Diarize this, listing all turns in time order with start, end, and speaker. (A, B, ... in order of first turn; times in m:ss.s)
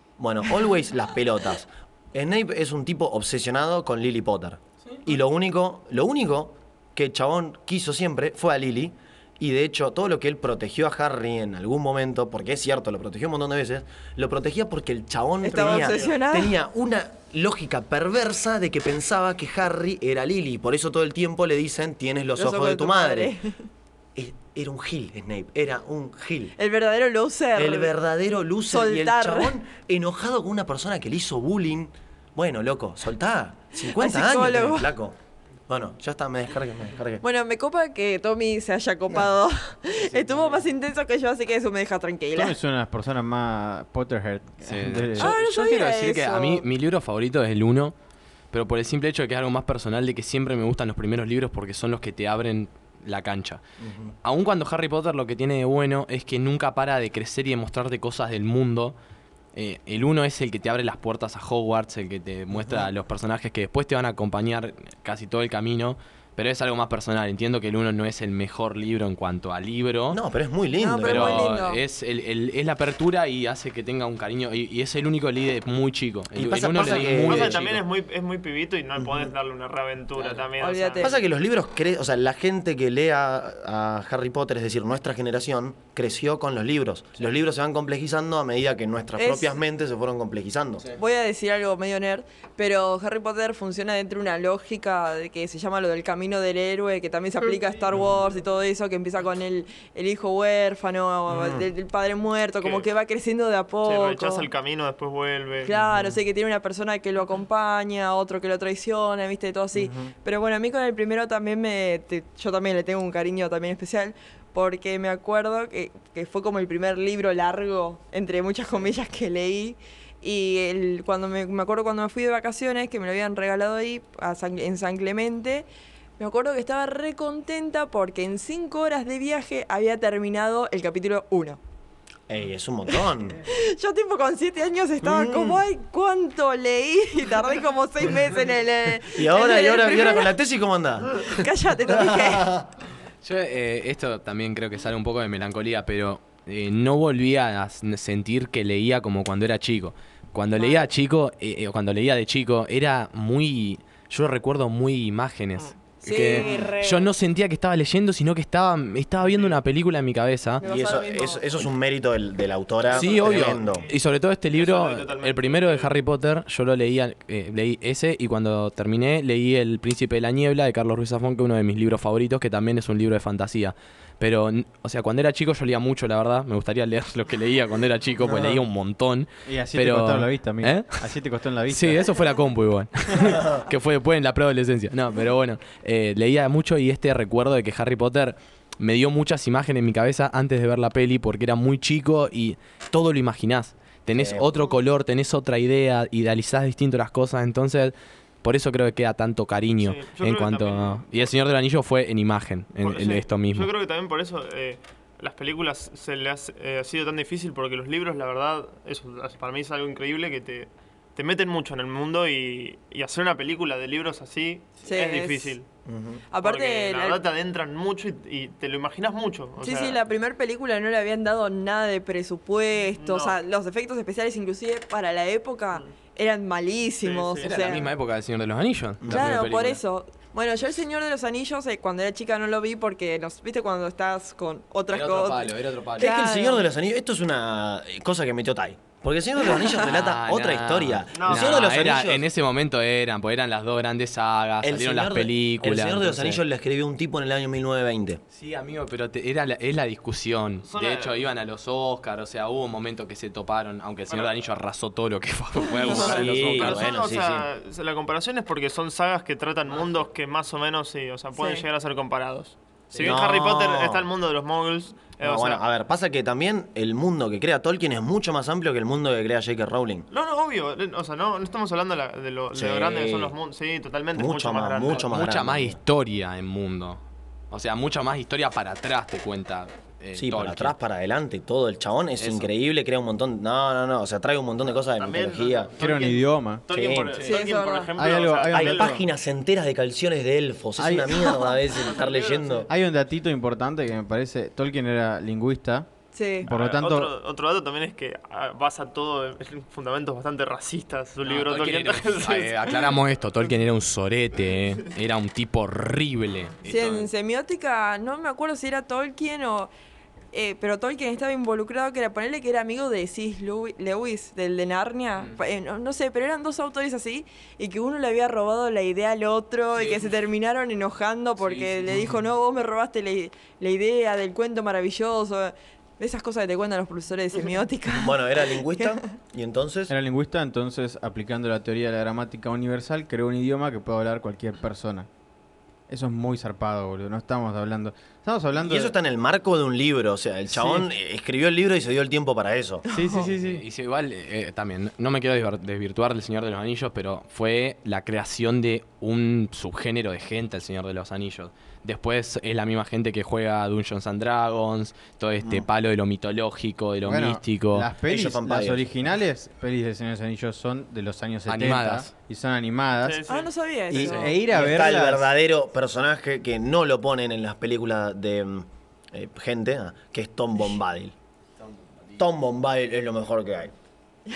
0:00.2-0:23.4 A
0:15.4-0:16.6 B
0:15.5-0:16.2 C
0:22.4-0:23.6 B
0:24.2-0:26.6 A
0:26.6-0:27.9 B
0:27.6-0:35.2 A
0:28.7-0:29.6 B
0:33.8-0:34.9 B
0:35.7-0:37.2 A
0:37.2-0:42.6 B
0:42.3-0:45.4 D
0:44.6-0:47.9 E
0:45.2-0:46.6 B
0:48.5-0:53.6 E
0:53.8-0:54.1 A
0:54.2-0:59.0 E
0:59.6-1:10.2 E
1:02.5-1:02.9 A
1:10.1-1:11.5 A
1:10.8-1:11.8 B
1:11.0-1:17.8 E
1:16.4-1:17.6 A
1:16.7-1:21.1 C
1:19.0-1:19.3 A
1:20.6-1:21.2 B
1:21.0-1:30.9 A
1:29.2-1:29.6 B
1:30.9-1:44.5 B
1:41.3-1:41.7 A
1:43.8-1:45.7 C
1:45.6-2:05.7 B
1:45.7-1:46.2 A
1:49.8-1:50.1 A
2:06.2-2:11.6 B
2:12.3-2:13.4 A
2:13.4-2:20.3 B
2:15.0-2:15.6 A
2:19.1-2:22.7 A
2:21.3-2:22.6 B
2:23.2-2:40.6 E
2:30.6-2:30.8 B
2:36.0-2:37.1 B
2:39.3-2:39.6 C
2:40.6-2:41.5 B
2:40.6-2:43.9 A
2:42.9-3:01.1 E
2:43.0-2:43.6 C
2:44.5-2:45.9 C
2:58.2-2:58.6 A
2:59.5-3:02.1 D
3:01.7-3:23.7 E
3:14.2-3:14.6 A
3:19.8-3:21.3 C
3:22.8-3:35.7 C
3:34.9-3:35.6 B
3:35.9-3:36.2 A
3:36.3-3:37.2 B
3:36.4-3:40.0 C
3:39.6-3:47.9 B
3:42.9-3:43.4 C
3:47.0-3:47.8 C
3:47.4-3:49.8 E
3:49.0-3:49.3 A
3:49.1-3:56.7 B
3:54.9-3:56.1 E
3:56.0-4:02.2 A
3:59.6-4:06.4 E
4:01.1-4:01.7 C
4:04.6-4:08.2 A
4:08.3-4:16.9 E
4:10.7-4:11.2 C
4:15.9-4:17.5 A
4:15.9-4:25.6 C
4:21.3-4:21.6 B
4:22.9-4:23.2 E
4:23.0-4:24.1 A
4:25.2-4:30.1 A
4:30.1-4:35.1 C
4:32.5-4:33.4 A
4:34.2-4:35.8 A
4:34.9-4:40.8 E
4:40.2-4:45.7 A
4:42.2-4:42.5 E
4:44.9-4:49.0 C
4:45.8-4:46.7 D
4:46.7-4:47.3 A
4:47.2-4:48.0 B
4:48.0-4:49.0 D
4:48.5-4:52.7 A
4:50.8-4:51.3 D
4:51.8-4:52.7 C
4:52.7-4:55.9 D
4:56.1-4:56.5 B
4:56.4-5:03.0 C
4:56.5-4:57.1 D
5:01.2-5:07.1 E
5:06.6-5:09.7 B
5:10.3-5:28.2 B
5:21.4-5:22.0 E
5:27.9-5:29.9 A
5:29.9-5:35.1 D
5:35.9-5:38.9 D
5:38.6-5:42.9 A
5:40.5-5:40.9 D
5:42.9-5:43.6 D
5:42.9-5:43.2 B
5:43.2-5:57.9 E
5:57.0-6:03.2 D
5:58.0-5:58.9 A
6:01.5-6:02.1 E
6:03.0-6:03.5 C
6:03.3-6:04.3 B
6:03.9-6:11.1 A
6:04.0-6:05.3 D
6:11.7-6:12.2 E
6:12.2-6:13.7 A